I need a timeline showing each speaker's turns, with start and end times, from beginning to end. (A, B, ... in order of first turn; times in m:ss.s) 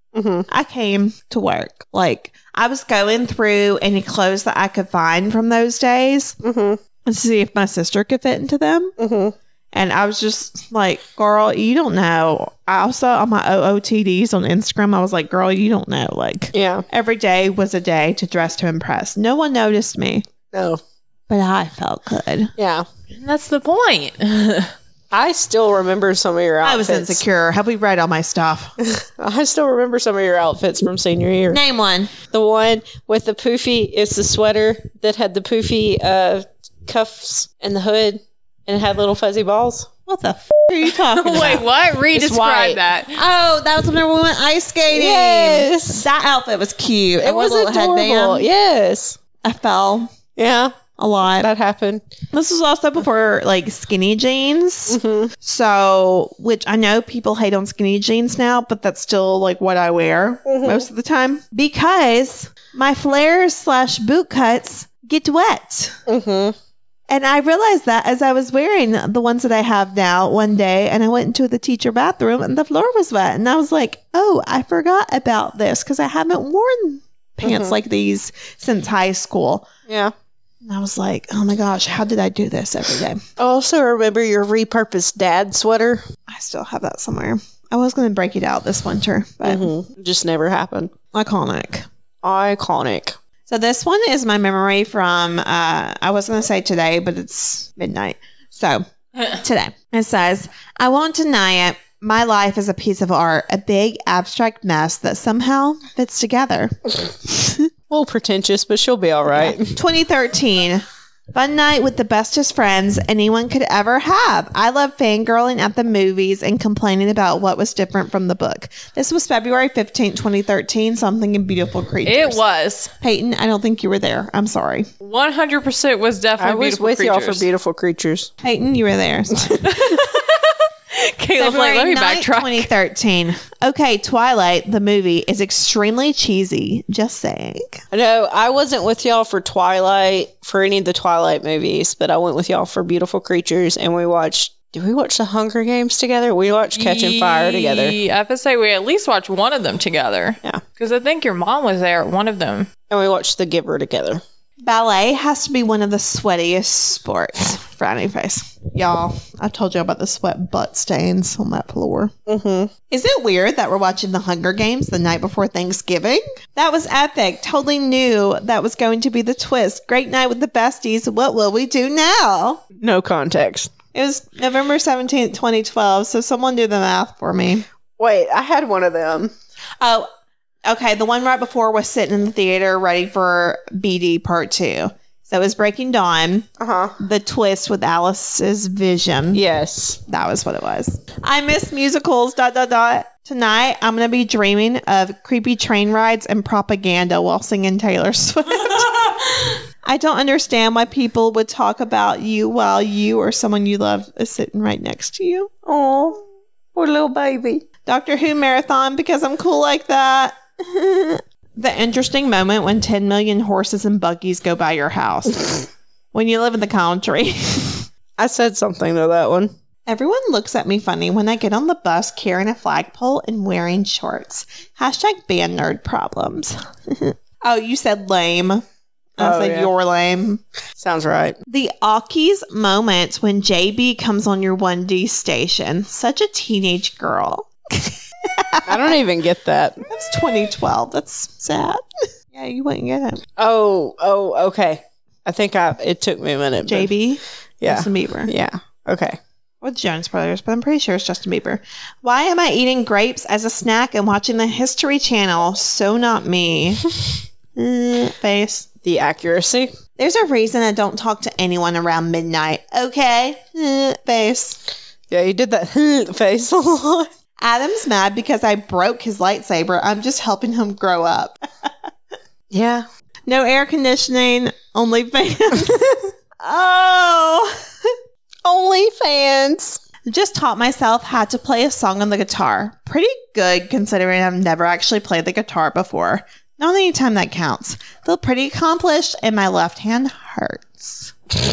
0:00.1-0:00.5 A
0:00.5-0:06.3 B
0:06.4-0:06.8 A
0:07.0-0:08.9 B
0:09.0-0:09.3 A
0:09.7-0:20.3 B
0:16.5-0:16.8 A
0:20.5-0:20.8 A
0:21.3-0:22.5 B
0:22.6-0:22.8 A
0:23.1-0:24.7 C
0:25.1-0:27.2 A
0:26.6-0:28.7 B
0:28.8-0:31.6 A
0:31.5-0:32.1 B
0:32.3-0:39.9 A
0:40.1-0:41.6 B
0:41.1-0:43.2 C
0:42.1-0:42.8 A
0:43.1-0:48.5 B
0:44.9-0:46.0 A
0:47.2-0:49.2 A
0:49.4-0:50.1 B
0:50.4-0:50.8 A
0:51.0-0:51.5 B
0:51.4-0:52.0 A
0:52.3-1:05.9 B
0:54.9-0:55.3 A
1:00.4-1:00.9 A
1:06.1-1:06.5 A
1:07.1-1:19.7 B
1:17.4-1:17.7 A
1:19.9-1:20.1 A
1:20.6-1:23.2 B
1:23.4-1:26.0 A
1:26.3-1:29.7 B
1:29.4-1:30.9 A
1:31.1-1:31.9 B
1:32.2-1:33.2 A
1:33.5-1:47.7 B
1:47.9-1:49.8 A
1:49.3-2:02.4 B
2:02.0-2:02.9 C
2:03.0-2:04.9 B
2:05.0-2:07.5 C
2:06.4-2:08.3 A
2:08.4-2:10.0 B
2:09.6-2:12.7 C
2:11.4-2:17.8 B
2:17.9-2:28.0 A
2:26.7-2:32.7 C
2:32.9-2:34.2 A
2:34.6-2:42.1 B
2:42.3-2:42.7 A
2:42.9-2:52.6 B
2:52.8-2:53.7 A
2:53.9-2:57.6 B
2:58.0-2:59.3 A
2:59.8-3:00.1 B
3:00.6-3:06.5 B
3:06.6-3:06.9 A
3:07.0-3:09.4 B
3:09.3-3:10.0 A
3:10.1-3:19.2 B
3:19.8-3:25.5 B
3:25.6-3:26.2 A
3:26.7-3:27.6 A
3:27.8-3:37.9 B
3:38.2-3:39.5 A
3:39.8-3:48.6 B
3:49.2-3:50.4 B
3:49.2-3:49.7 A
3:50.8-3:51.4 A
3:51.5-3:59.0 B
3:58.6-3:59.8 A
3:59.8-4:03.2 B
4:03.4-4:06.9 A
4:06.7-4:08.3 B
4:07.6-4:09.2 A
4:09.6-4:16.8 B
4:17.6-4:18.7 B
4:18.8-4:19.7 A
4:20.0-4:24.6 B
4:25.1-4:27.1 A
4:27.4-4:31.7 B
4:32.5-4:32.8 A
4:33.3-4:37.9 B
4:38.4-4:39.8 A
4:40.1-4:51.1 B